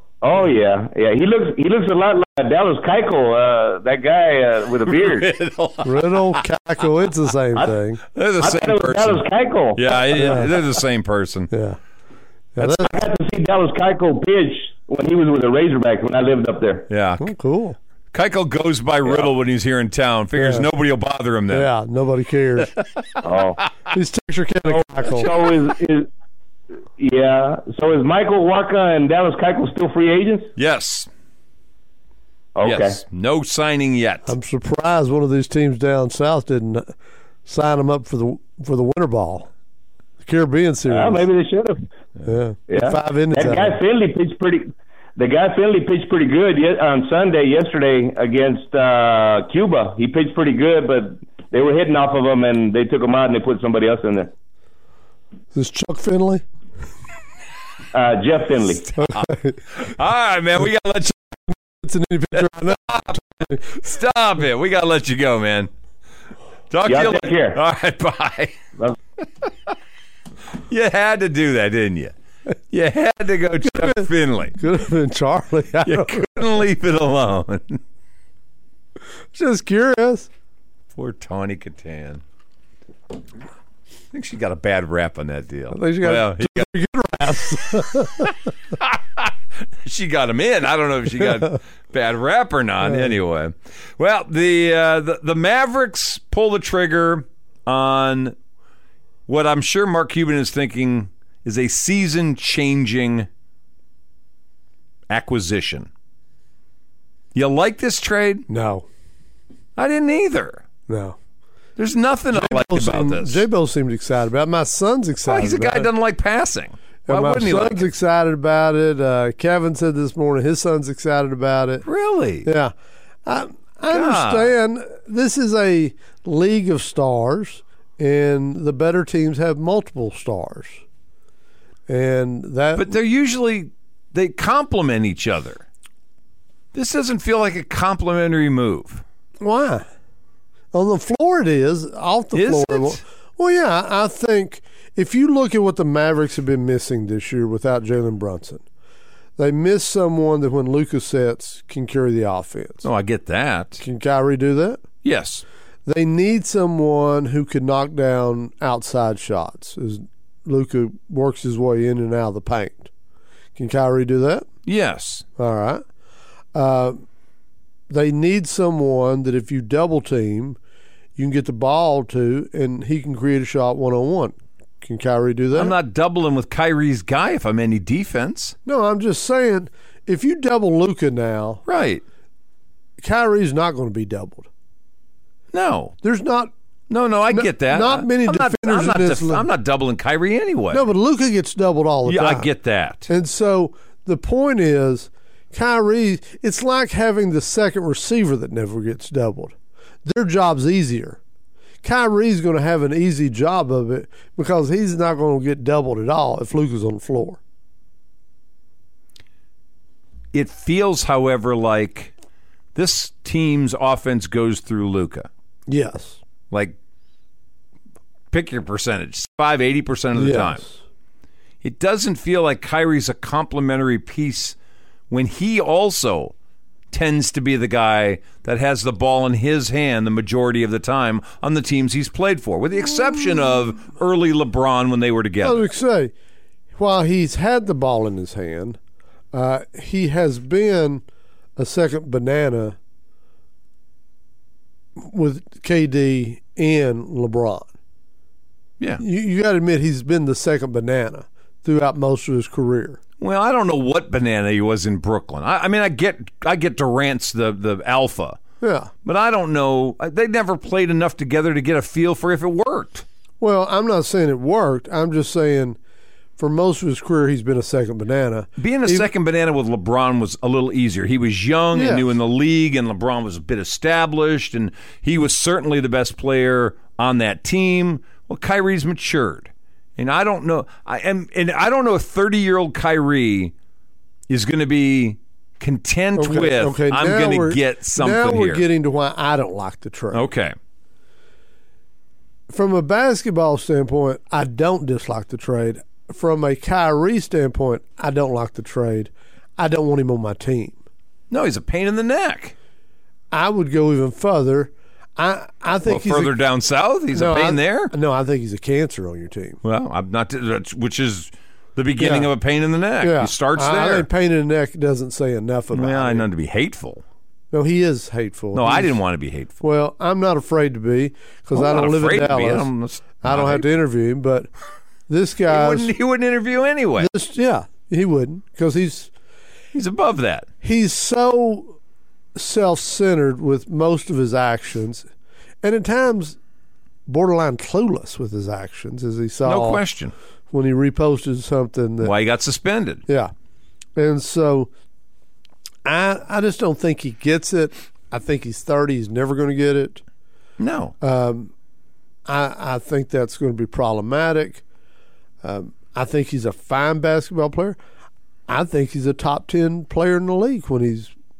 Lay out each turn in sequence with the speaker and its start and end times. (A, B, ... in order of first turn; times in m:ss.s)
0:00.2-0:05.3 A
0:05.0-0:06.4 B
0:05.8-0:08.0 C
0:08.1-0:09.2 B
0:08.4-0:09.8 A
0:09.7-0:11.5 B
0:10.1-0:10.5 C
0:11.5-0:11.8 C
0:12.5-0:13.0 C
0:12.6-0:16.8 A
0:16.9-0:17.3 B
0:17.2-0:17.8 C
0:18.1-0:21.7 B
0:20.4-0:20.7 C
0:21.5-0:22.7 C
0:23.2-0:23.6 A
0:23.9-0:25.3 C
0:24.7-0:26.1 A
0:27.0-0:30.5 A
0:30.6-0:31.1 B
0:32.6-0:33.0 A
0:32.6-0:34.3 B
0:34.2-0:36.9 C
0:37.4-0:39.5 C
0:40.2-0:41.2 C
0:40.9-0:41.8 A
0:42.2-0:43.8 C
0:42.7-0:54.3 A
0:55.5-0:56.4 C
0:57.9-0:58.8 A
0:58.9-1:01.2 B
0:59.0-0:59.6 C
1:01.8-1:03.8 C
1:02.5-1:05.7 B
1:06.7-1:08.6 B
1:06.8-1:07.6 A
1:10.7-1:12.1 B
1:12.7-1:14.6 B
1:13.6-1:16.2 C
1:15.8-1:17.8 B
1:19.3-1:20.3 C
1:20.9-1:22.2 B
1:24.1-1:26.7 B
1:25.7-1:28.3 C
1:28.0-1:38.3 B
1:32.8-1:33.1 C
1:39.3-1:43.3 B
1:45.1-1:45.9 B
1:47.3-1:48.4 B
1:48.5-1:48.8 C
1:49.8-1:50.6 B
1:50.9-1:51.2 C
1:51.8-1:53.4 B
1:52.3-1:55.9 C
1:55.3-1:57.9 B
1:57.1-2:01.8 C
2:01.8-2:02.5 B
2:02.4-2:02.7 C
2:03.2-2:10.8 C
2:03.9-2:04.5 B
2:11.9-2:13.0 C
2:12.8-2:15.6 B
2:16.7-2:19.0 B
2:19.4-2:19.8 C
2:20.7-2:28.6 C
2:22.3-2:23.0 B
2:29.4-2:32.8 C
2:32.8-2:33.8 B
2:33.8-2:34.8 C
2:35.0-2:35.4 B
2:35.8-2:42.9 C
2:43.6-2:44.5 C
2:44.6-2:45.2 B
2:45.4-2:45.8 C
2:46.5-2:47.0 C
2:47.9-2:50.6 C
2:51.2-2:55.8 C
2:55.5-2:58.5 B
2:58.6-3:01.6 C
3:01.7-3:02.0 B
3:03.0-3:04.5 C
3:05.5-3:05.9 B
3:06.0-3:06.5 C
3:06.9-3:10.8 B
3:07.3-3:09.5 C
3:10.7-3:12.5 C
3:12.0-3:13.1 B
3:13.1-3:21.2 C
3:21.8-3:27.4 C
3:30.3-3:32.1 B
3:32.7-3:35.3 B
3:35.7-3:36.2 C
3:36.5-3:36.8 B
3:38.3-3:40.6 B
3:40.1-3:40.8 C
3:41.6-3:44.6 B
3:45.1-3:46.3 B
3:46.9-3:55.6 B
3:55.4-3:56.1 C
3:56.7-3:58.8 C
3:59.3-4:01.0 C
4:01.6-4:02.8 C
4:05.0-4:07.7 C
4:09.0-4:13.0 C
4:13.2-4:18.4 B
4:18.6-4:18.9 C
4:19.0-4:23.0 B
4:23.4-4:25.8 C
4:26.4-4:29.1 C
4:28.6-4:43.5 B
4:31.7-4:32.0 C
4:44.3-4:48.6 B
4:46.2-4:50.2 C
4:50.1-4:50.5 B
4:52.5-5:00.8 C
5:01.3-5:02.5 B
5:03.3-5:06.3 C
5:05.9-5:07.9 B
5:07.1-5:09.6 C
5:09.6-5:14.1 B
5:12.0-5:12.3 C
5:13.0-5:16.2 C
5:15.7-5:17.0 B
5:17.5-5:19.0 C
5:18.5-5:19.6 B
5:19.6-5:22.7 C
5:21.5-5:23.7 B
5:23.2-5:24.5 C
5:25.1-5:25.9 C
5:25.5-5:27.1 B
5:27.0-5:29.1 C
5:29.7-5:30.5 B
5:30.6-5:31.8 C
5:32.3-5:35.1 C
5:35.6-5:36.4 C
5:37.0-5:39.8 C
5:39.4-5:40.1 B
5:40.5-5:42.1 C
5:42.0-5:43.0 B
5:43.1-5:43.3 C
5:44.0-5:44.7 C
5:45.8-5:50.0 C
5:50.6-5:50.9 B
5:51.0-5:51.5 C
5:52.3-5:54.6 C
5:55.4-5:57.8 C
5:58.5-6:01.1 C